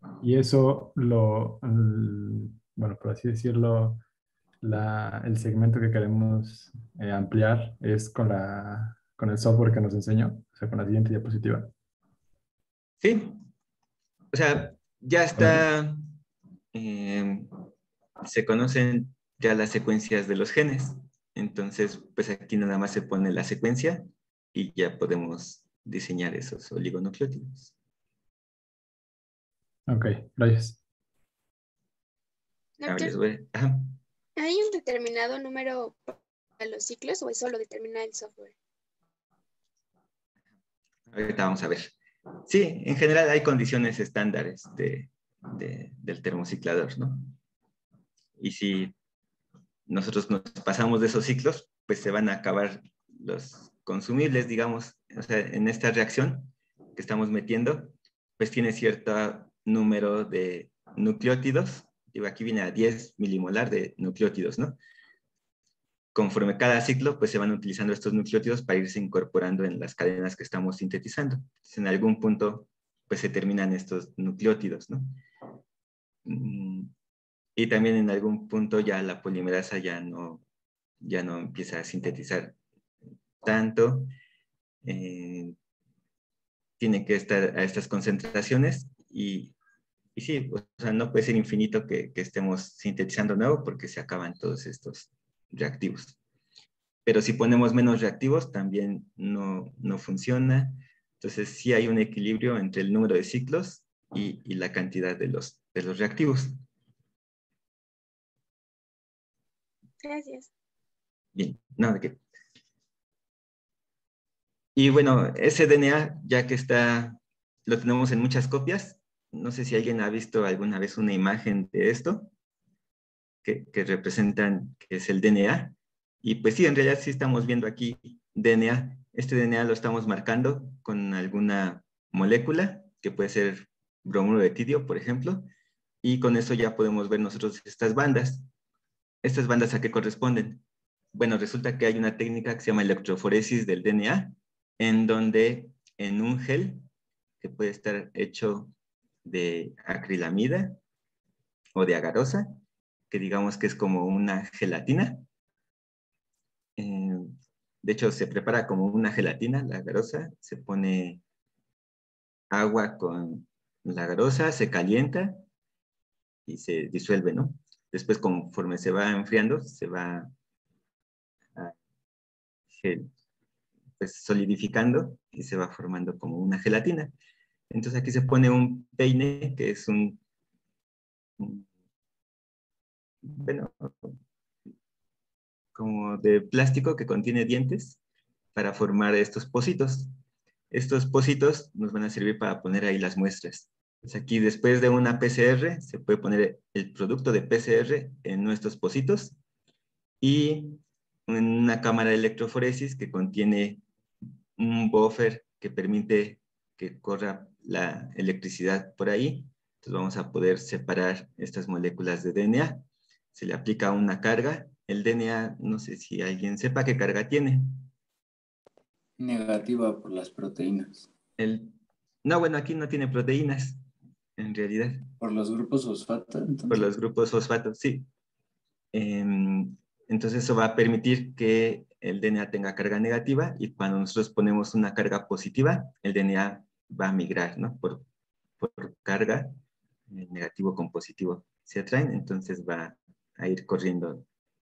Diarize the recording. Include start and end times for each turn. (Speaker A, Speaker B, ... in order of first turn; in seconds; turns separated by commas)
Speaker A: 0.2-4.0, Speaker A: 4.6-11.7, Speaker B: 13.0-13.3, Speaker B: 14.3-16.1, Speaker A: 15.4-15.6, Speaker B: 16.7-17.5, Speaker B: 18.2-27.7, Speaker A: 29.9-30.8, Speaker C: 32.8-33.1, Speaker B: 32.8-34.0, Speaker C: 34.4-38.5, Speaker B: 41.1-41.9, Speaker B: 42.5-47.3, Speaker B: 48.4-48.9, Speaker B: 49.9-64.8, Speaker B: 66.1-75.2, Speaker B: 76.2-76.9, Speaker B: 77.5-80.4, Speaker B: 81.0-82.5, Speaker B: 83.4-84.1, Speaker B: 84.8-85.5, Speaker B: 86.8-89.5, Speaker B: 90.2-96.2, Speaker B: 97.0-106.6, Speaker C: 110.0-110.5, Speaker B: 111.3-112.2, Speaker B: 114.8-122.3, Speaker B: 123.4-135.5, Speaker B: 136.0-138.5, Speaker B: 139.2-140.6, Speaker B: 141.1-146.8, Speaker B: 147.4-148.7, Speaker B: 149.2-150.8, Speaker B: 151.7-152.6, Speaker B: 153.1-155.2, Speaker B: 156.8-161.2, Speaker B: 162.5-165.4, Speaker B: 166.5-170.3, Speaker B: 172.7-173.1, Speaker B: 174.0-177.1, Speaker B: 177.7-180.2, Speaker B: 181.4-181.7, Speaker B: 183.2-184.2, Speaker B: 185.7-188.0, Speaker B: 188.5-190.1, Speaker B: 190.7-199.3, Speaker B: 200.2-203.8, Speaker B: 204.6-217.9, Speaker D: 219.2-221.1, Speaker B: 221.4-223.8, Speaker B: 224.4-225.1, Speaker D: 225.2-226.8, Speaker B: 226.7-228.1, Speaker B: 228.9-238.0, Speaker B: 238.6-239.5, Speaker B: 240.1-244.2